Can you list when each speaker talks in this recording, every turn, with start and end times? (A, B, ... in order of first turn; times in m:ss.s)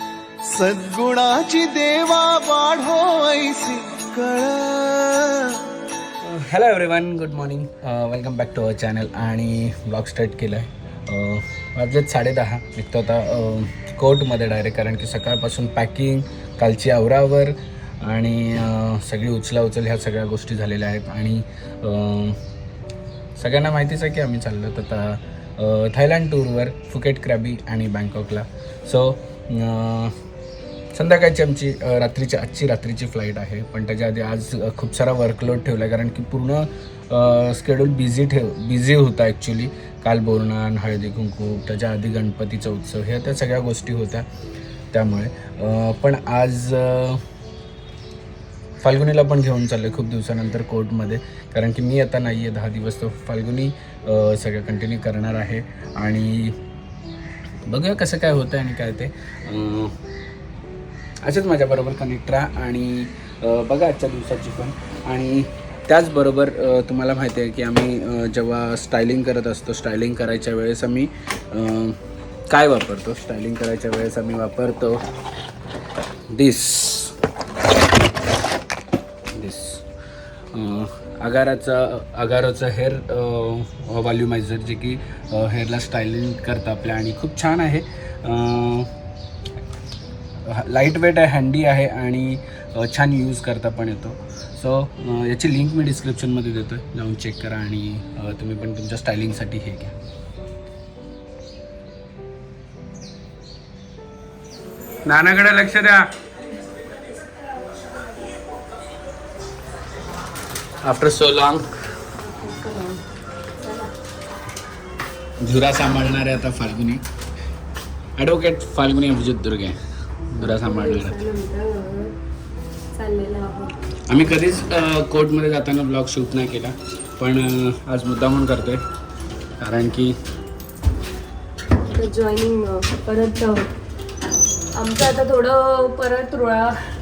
0:00.4-0:05.7 A
0:06.2-0:22.4 B
0:23.4-0:30.1 B
0:30.9-0:44.2 B
0:44.9-0:47.2 B
0:48.8-0:56.6 B
0:57.6-0:59.9 B
1:01.2-1:12.0 B
1:12.5-1:15.0 B
1:16.3-1:17.1 B
1:19.3-1:19.8 B
1:20.5-1:28.9 B
1:30.4-1:39.9 B
1:45.0-1:46.1 B
1:50.8-1:51.6 B
1:52.2-1:53.9 C
1:55.4-1:57.0 B
1:58.2-1:59.8 B
2:00.3-2:01.2 B
2:00.4-2:02.2 C
2:02.9-2:03.8 C
2:04.1-2:08.8 B
2:09.6-2:10.2 B
2:11.9-2:13.7 C
2:14.7-2:16.9 C